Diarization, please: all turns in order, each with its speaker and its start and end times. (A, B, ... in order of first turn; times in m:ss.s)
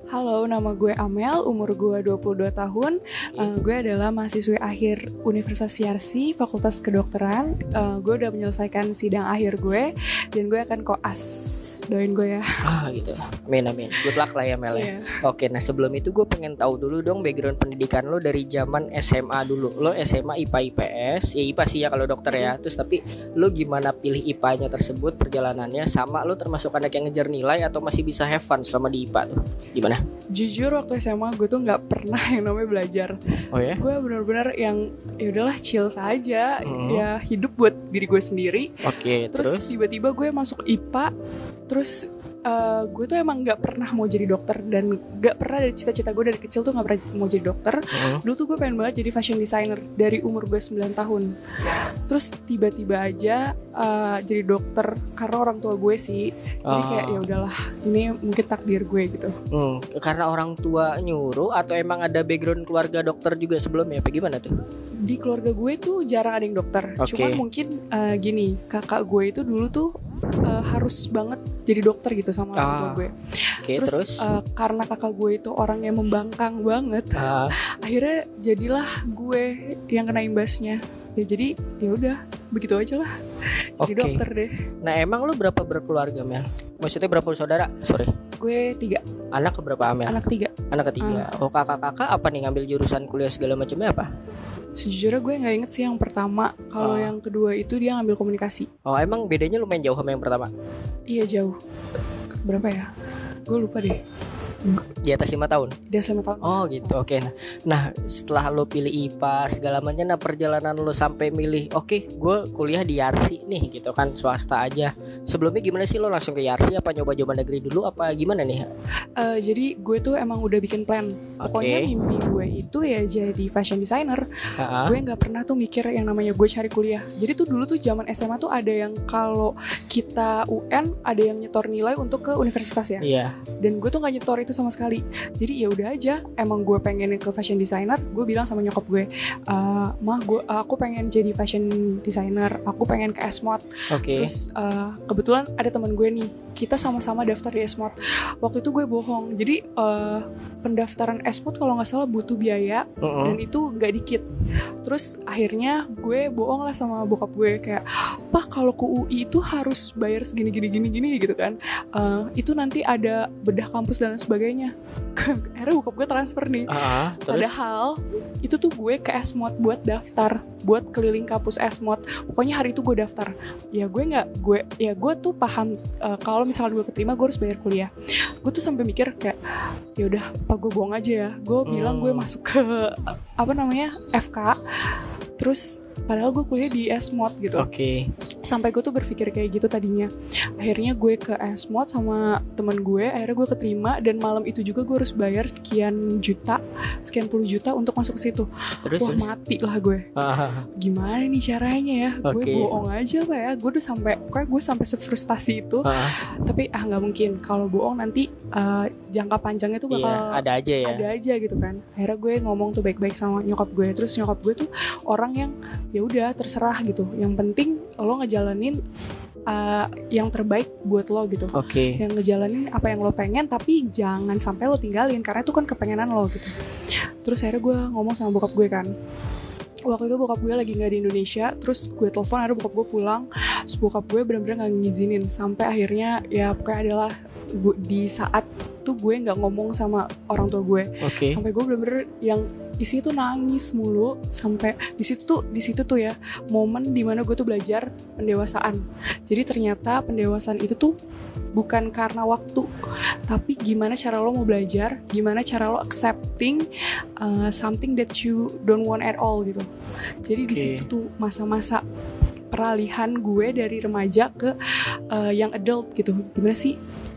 0:00.1-0:12.5 A
0:12.6-0:30.0 B
0:14.7-0:15.1 A
0:22.3-0:22.6 A
0:30.4-0:33.2 A
0:33.5-0:33.8 B
0:33.7-0:38.7 A
0:36.6-0:37.1 B
0:38.8-0:39.7 B
0:39.3-0:41.1 A
0:41.7-0:51.3 A
0:47.9-0:48.2 B
0:52.1-0:59.3 A
0:56.7-0:57.3 B
0:59.5-1:04.6 B
1:05.1-1:23.2 A
1:07.0-1:07.4 B
1:12.6-1:13.0 B
1:13.6-1:14.2 B
1:17.2-1:17.5 B
1:23.8-1:24.2 B
1:23.8-1:24.5 A
1:24.8-1:28.1 B
1:28.4-1:29.0 A
1:29.3-1:30.2 B
1:30.1-1:31.3 A
1:30.7-1:34.1 B
1:34.8-1:38.7 A
1:36.8-1:37.1 B
1:38.8-1:40.5 B
1:41.1-1:41.6 A
1:42.4-1:42.9 A
1:43.5-1:44.0 A
1:45.0-1:45.8 B
1:45.9-1:47.0 A
1:46.4-1:58.7 B
1:59.2-2:13.1 A
2:01.4-2:02.2 B
2:04.6-2:05.0 B
2:13.0-2:13.3 B
2:13.6-2:34.2 A
2:23.9-2:24.3 B
2:33.0-2:33.4 B
2:34.8-2:59.4 A
2:46.7-2:47.5 B
3:00.0-3:04.6 A
3:01.7-3:02.3 B
3:05.4-3:07.7 A
3:07.6-3:08.0 B
3:08.5-3:20.1 A
3:18.8-3:19.3 B
3:20.2-3:20.7 B
3:20.8-3:38.8 A
3:22.2-3:22.8 B
3:25.8-3:26.2 B
3:29.9-3:31.0 B
3:39.5-3:46.5 A
3:41.5-3:42.0 B
3:47.2-3:48.9 A
3:49.9-4:10.9 A
4:01.0-4:01.4 B
4:11.6-4:12.6 A
4:13.3-4:16.6 A
4:17.2-4:19.7 A
4:20.3-4:21.8 A
4:20.5-4:20.9 B
4:22.5-4:26.8 A